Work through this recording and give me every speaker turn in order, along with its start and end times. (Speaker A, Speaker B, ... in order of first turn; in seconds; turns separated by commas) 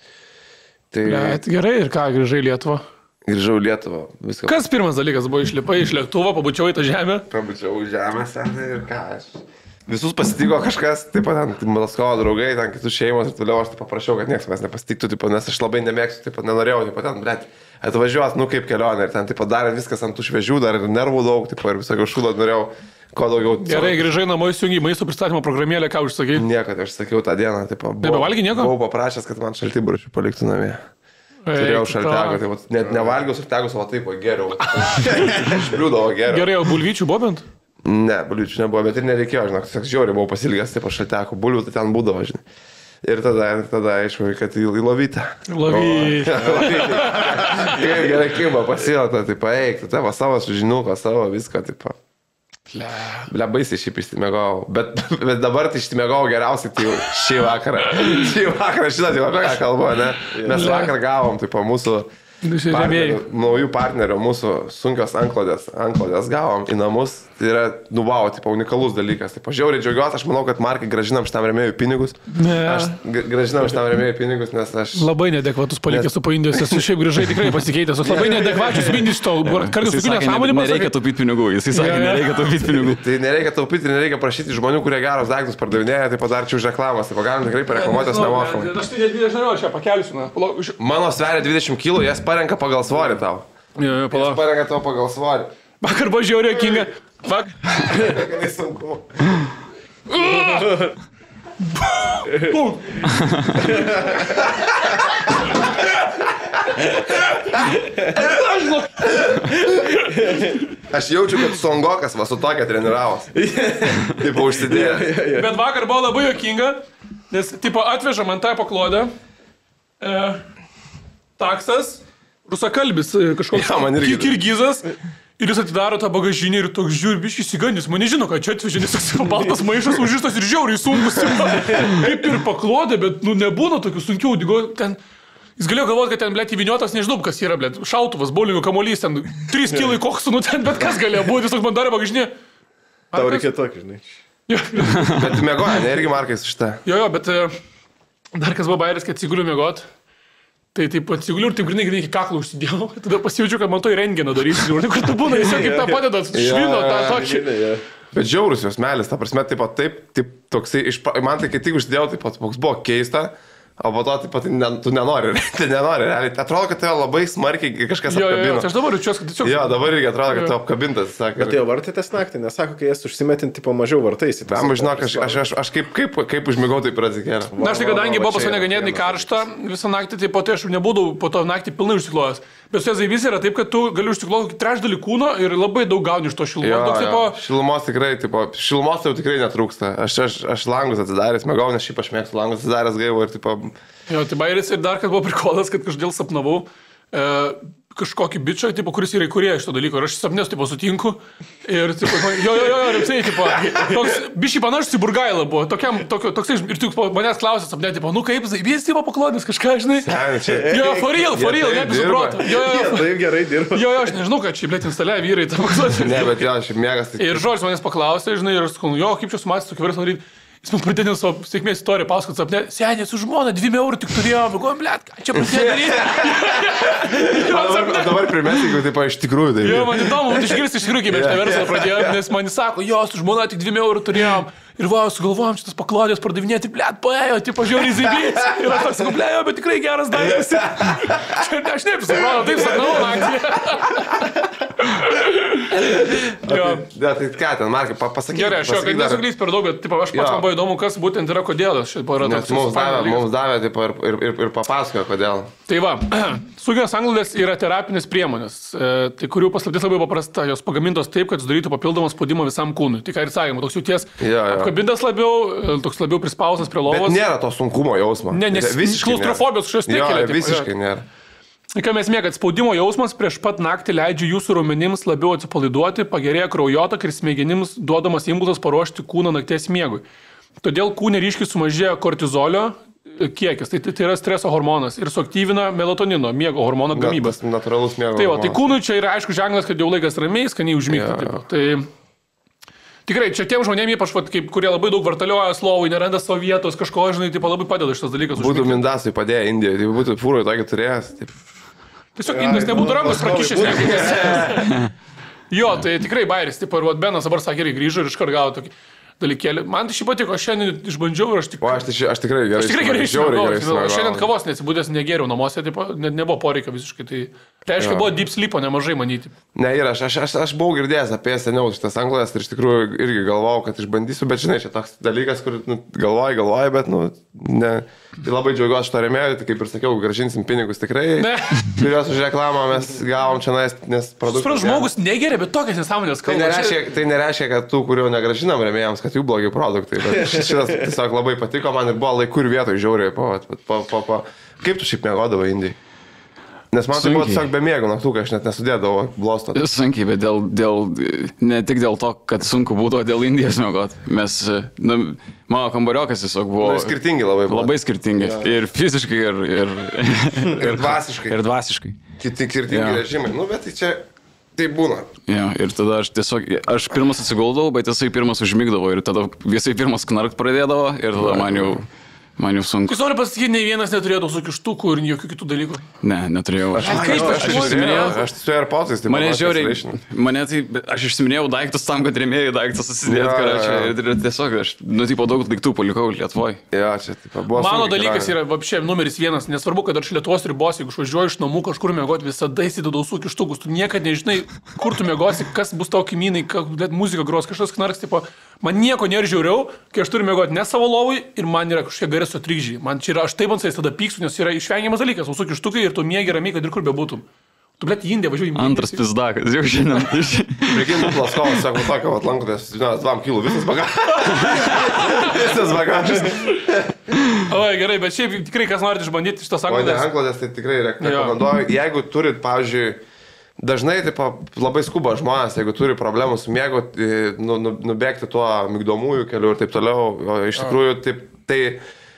Speaker A: 0.9-1.4, Speaker B: 1.1-2.8, Speaker A: 3.3-4.6, Speaker B: 4.5-7.2, Speaker A: 7.3-24.1, Speaker B: 23.6-26.4, Speaker A: 26.3-30.8, Speaker B: 28.0-28.7, Speaker B: 31.4-32.4, Speaker A: 31.5-36.7, Speaker B: 34.8-35.7, Speaker B: 36.3-37.4, Speaker A: 37.8-42.4, Speaker A: 43.0-52.0, Speaker B: 45.5-47.8, Speaker B: 52.7-53.3, Speaker A: 53.3-62.1, Speaker C: 60.3-60.8, Speaker B: 60.5-60.9, Speaker B: 62.4-63.2, Speaker A: 62.7-75.1, Speaker B: 72.3-73.0, Speaker B: 75.0-80.9, Speaker A: 75.9-76.8, Speaker A: 78.0-79.0, Speaker D: 79.4-83.0, Speaker B: 81.7-82.5, Speaker A: 82.9-88.7, Speaker B: 87.7-90.8, Speaker A: 90.8-93.5, Speaker B: 93.8-94.4, Speaker A: 94.1-95.5, Speaker B: 95.8-98.2, Speaker A: 97.7-99.5, Speaker B: 100.1-100.9, Speaker B: 101.8-103.7, Speaker C: 103.7-104.1, Speaker A: 104.1-105.7, Speaker A: 106.8-107.4, Speaker B: 108.2-109.2, Speaker C: 110.0-110.6, Speaker A: 110.9-113.3, Speaker C: 113.3-115.5, Speaker A: 114.1-115.1, Speaker B: 115.3-119.1, Speaker B: 120.0-120.4, Speaker B: 121.4-135.0, Speaker A: 123.5-124.4, Speaker B: 135.6-142.3, Speaker B: 143.1-143.5, Speaker C: 143.1-144.2, Speaker B: 144.5-145.4, Speaker A: 145.1-146.8, Speaker B: 146.8-147.6, Speaker B: 148.3-149.9, Speaker B: 150.7-157.6, Speaker C: 155.3-156.0, Speaker A: 156.3-157.3, Speaker C: 156.9-157.8, Speaker A: 158.1-168.7, Speaker B: 168.1-169.7, Speaker A: 169.4-171.6, Speaker C: 171.4-175.4, Speaker A: 174.4-178.8, Speaker C: 177.5-179.2, Speaker B: 177.6-187.4, Speaker A: 186.6-193.7, Speaker B: 194.1-213.1, Speaker A: 203.5-204.1, Speaker A: 210.0-212.5, Speaker C: 212.5-214.0, Speaker B: 213.7-216.3, Speaker A: 215.9-217.4, Speaker B: 217.2-228.7, Speaker A: 225.3-232.1, Speaker B: 229.6-245.8, Speaker A: 245.7-249.2, Speaker B: 246.3-246.8, Speaker B: 248.3-253.3, Speaker A: 250.1-250.5, Speaker A: 252.2-255.5, Speaker B: 255.7-267.2, Speaker A: 264.2-264.7, Speaker A: 266.9-271.1, Speaker B: 268.3-270.7, Speaker B: 271.7-280.0, Speaker B: 280.6-287.4, Speaker A: 286.9-288.7, Speaker B: 288.1-291.9, Speaker A: 290.9-291.4, Speaker B: 293.1-298.9, Speaker A: 298.3-301.4, Speaker B: 302.2-304.8, Speaker A: 302.3-304.7, Speaker B: 305.5-311.8, Speaker A: 311.6-314.3, Speaker B: 312.6-319.3, Speaker A: 317.8-318.1, Speaker A: 319.6-334.9, Speaker B: 331.2-331.8, Speaker B: 334.3-336.8, Speaker A: 336.2-345.8, Speaker A: 346.7-349.6, Speaker D: 346.9-347.5, Speaker D: 349.5-362.0, Speaker A: 356.6-358.5, Speaker A: 360.5-361.4, Speaker A: 362.2-364.0, Speaker D: 362.7-363.0, Speaker A: 364.6-365.1, Speaker D: 365.3-371.8, Speaker A: 371.2-371.8, Speaker D: 372.4-373.0, Speaker B: 372.9-375.9, Speaker D: 376.0-378.2, Speaker A: 376.7-380.0, Speaker B: 376.8-378.1, Speaker D: 379.1-386.6, Speaker A: 383.1-383.9, Speaker A: 386.7-388.3, Speaker B: 387.5-407.2, Speaker B: 407.8-409.0, Speaker D: 408.5-411.4, Speaker A: 410.7-417.0, Speaker B: 414.8-415.4, Speaker B: 417.4-420.1, Speaker A: 419.7-423.0, Speaker B: 421.0-421.4, Speaker A: 423.6-431.8